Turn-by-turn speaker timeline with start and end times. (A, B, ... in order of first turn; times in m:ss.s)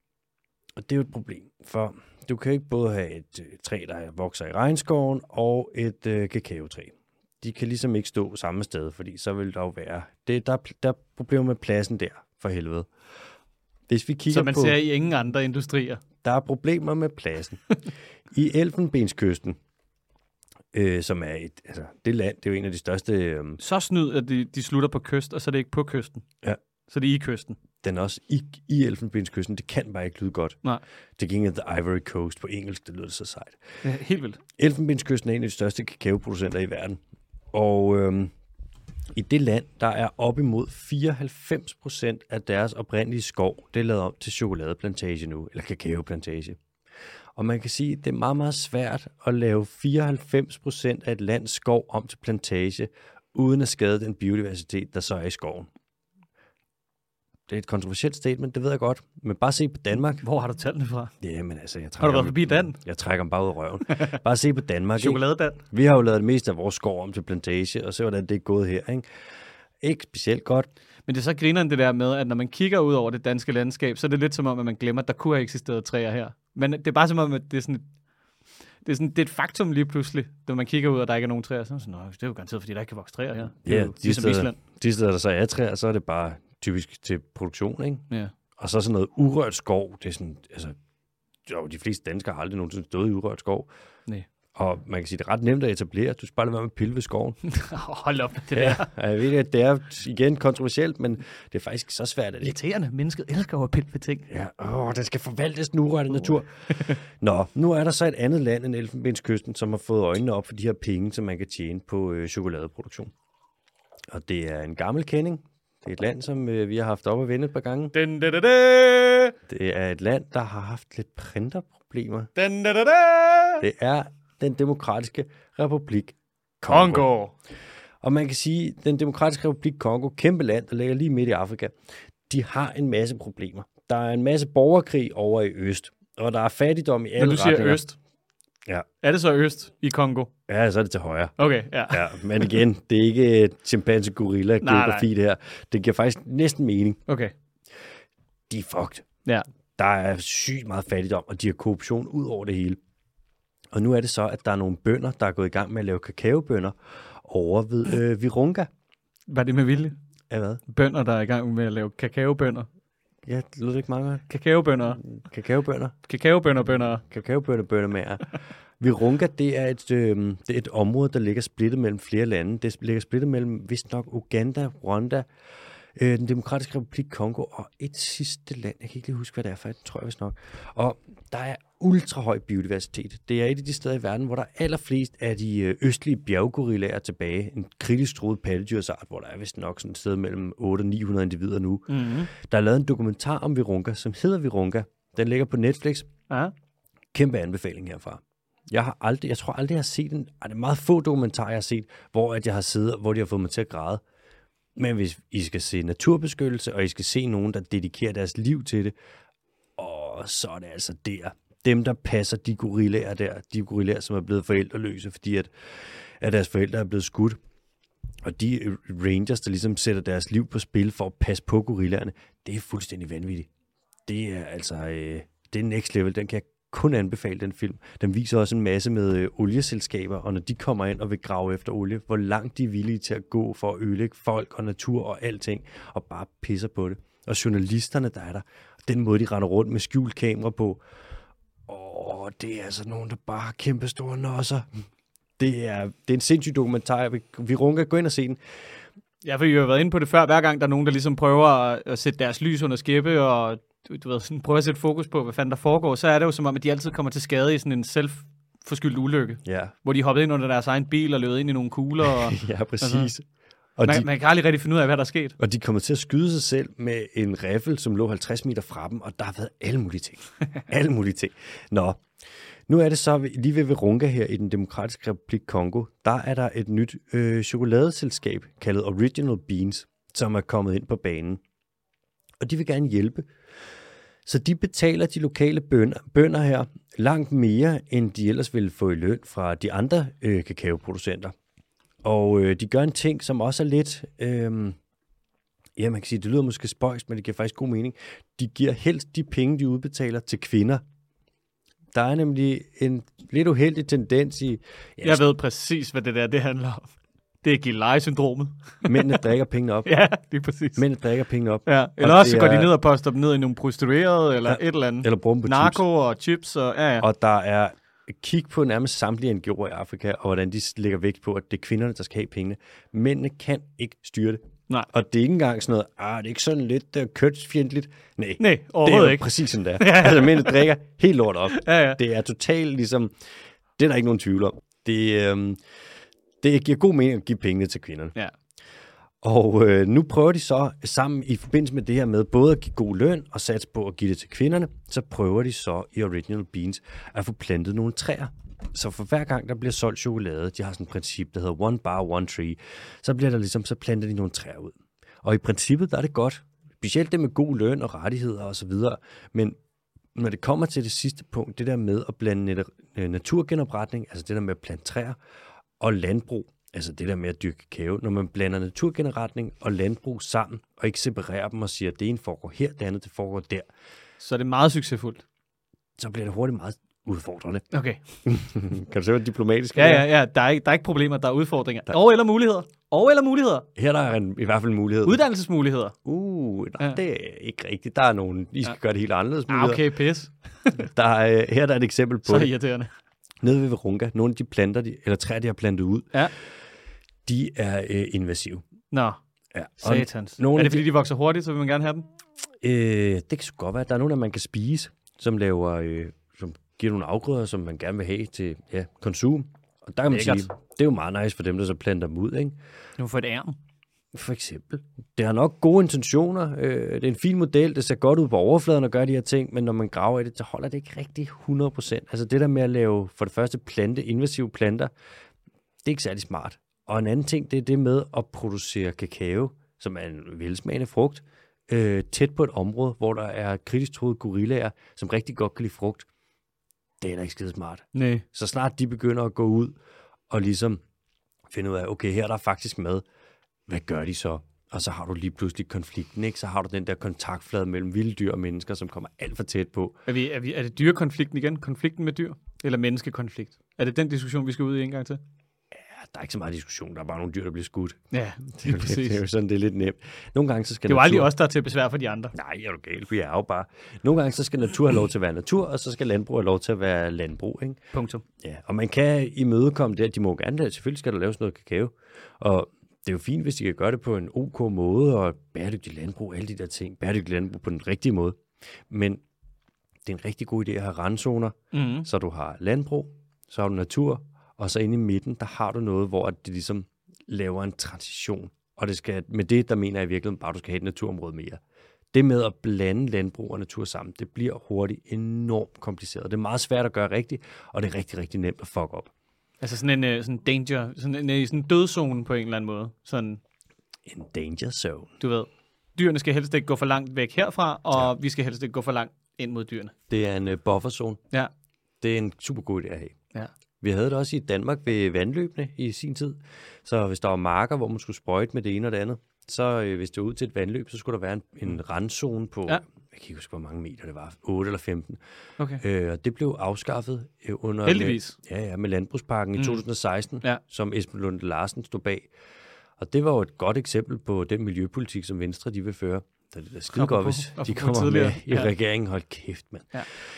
0:00.8-0:12.9 A
0:13.9-0:14.8 A
0:14.3-0:16.0 B
0:16.2-0:17.6 A
0:18.3-0:19.6 A
0:20.7-0:23.6 A
0:23.6-0:26.2 B
0:26.9-0:27.6 B
0:27.8-0:30.6 A
0:31.2-0:33.6 A
0:33.8-0:34.4 B
0:34.6-0:37.0 A
0:37.5-0:38.3 A
0:39.1-0:46.6 A
0:47.4-0:55.7 A
0:57.5-1:00.2 A
1:00.2-1:01.1 B
1:01.2-1:09.0 A
1:02.0-1:02.8 B
1:03.9-1:04.2 B
1:05.0-1:05.6 B
1:09.8-1:10.7 A
1:11.1-1:17.8 B
1:18.8-1:24.6 B
1:23.6-1:28.0 A
1:28.6-1:30.8 A
1:31.4-1:33.7 A
1:34.5-1:37.4 A
1:37.4-1:38.9 B
1:38.5-1:42.6 A
1:42.4-1:44.3 B
1:44.3-1:53.1 A
1:54.1-1:57.9 A
1:57.9-1:59.3 B
1:59.5-2:02.3 A
2:02.4-2:03.6 B
2:03.6-2:07.1 A
2:06.7-2:07.3 B
2:08.0-2:11.7 A
2:12.3-2:17.8 A
2:17.2-2:18.0 B
2:19.0-2:20.3 B
2:20.5-2:21.4 A
2:21.4-2:22.6 B
2:21.9-2:27.0 A
2:24.6-2:25.1 B
2:27.1-2:27.3 B
2:28.5-2:29.0 A
2:29.8-2:32.8 A
2:33.7-2:38.7 A
2:39.3-2:39.9 B
2:40.3-2:40.6 A
2:40.7-2:42.7 B
2:43.2-2:44.2 A
2:44.3-2:45.0 B
2:45.0-2:45.9 A
2:46.1-2:47.0 B
2:47.1-2:55.2 A
2:56.0-3:16.1 A
3:11.9-3:12.3 B
3:17.1-3:24.0 A
3:24.8-3:28.9 A
3:29.8-3:35.5 A
3:36.2-3:37.4 A
3:38.2-3:43.5 A
3:44.1-4:00.8 A
4:01.7-4:04.7 A
4:05.4-4:08.4 A
4:09.2-4:23.1 B
4:19.4-4:19.7 A
4:22.0-4:23.2 A
4:23.8-4:24.1 A
4:23.8-4:25.4 B
4:25.4-4:32.0 A
4:32.7-4:41.4 A
4:42.4-4:43.2 A
4:44.2-4:51.3 A
4:52.0-4:54.8 A
4:55.8-5:00.8 A
5:01.9-5:05.2 A
5:05.0-5:09.2 B
5:08.8-5:09.9 A
5:09.8-5:10.8 B
5:10.8-5:12.7 A
5:11.6-5:17.0 B
5:14.4-5:15.8 A
5:17.0-5:33.1 A
5:28.4-5:30.6 B
5:31.5-5:32.0 B
5:33.8-5:35.6 A
5:36.4-5:38.1 A
5:39.2-5:59.5 A
6:00.1-6:05.2 A
6:05.8-6:13.7 A
6:14.2-6:15.2 B
6:16.0-6:17.6 A
6:17.7-6:18.0 B
6:18.2-6:20.1 A
6:19.8-6:23.7 B
6:23.8-6:25.2 A
6:25.0-6:25.9 B
6:26.0-6:29.9 A
6:29.5-6:30.8 B
6:30.8-6:32.5 A
6:32.2-6:32.9 B
6:33.4-6:36.1 A
6:37.2-6:38.6 A
6:38.9-6:39.2 B
6:39.5-6:40.9 A
6:39.8-6:42.0 B
6:42.6-6:52.6 A
6:50.1-6:50.5 B
6:53.0-6:53.6 B
6:54.1-7:04.9 A
7:05.8-7:16.1 A
7:17.0-7:19.7 A
7:17.9-7:18.2 B
7:20.3-7:20.8 A
7:21.5-7:23.0 A
7:23.7-7:30.0 A
7:30.1-7:35.2 B
7:35.7-7:38.0 A
7:38.1-7:39.2 B
7:38.5-7:41.3 A
7:40.9-7:42.3 B
7:42.3-7:47.8 A
7:47.9-7:48.2 B
7:48.4-7:59.2 A
8:00.0-8:11.6 A
8:01.7-8:02.1 B
8:12.1-8:19.1 A
8:19.6-8:23.4 B
8:24.1-8:25.1 A
8:25.2-8:29.9 B
8:30.1-8:31.2 A
8:32.0-8:33.2 A
8:33.8-8:45.2 A
8:45.8-8:52.3 A
8:47.8-8:48.4 B
8:49.6-8:49.8 B
8:53.0-8:59.9 A
8:56.9-8:58.7 B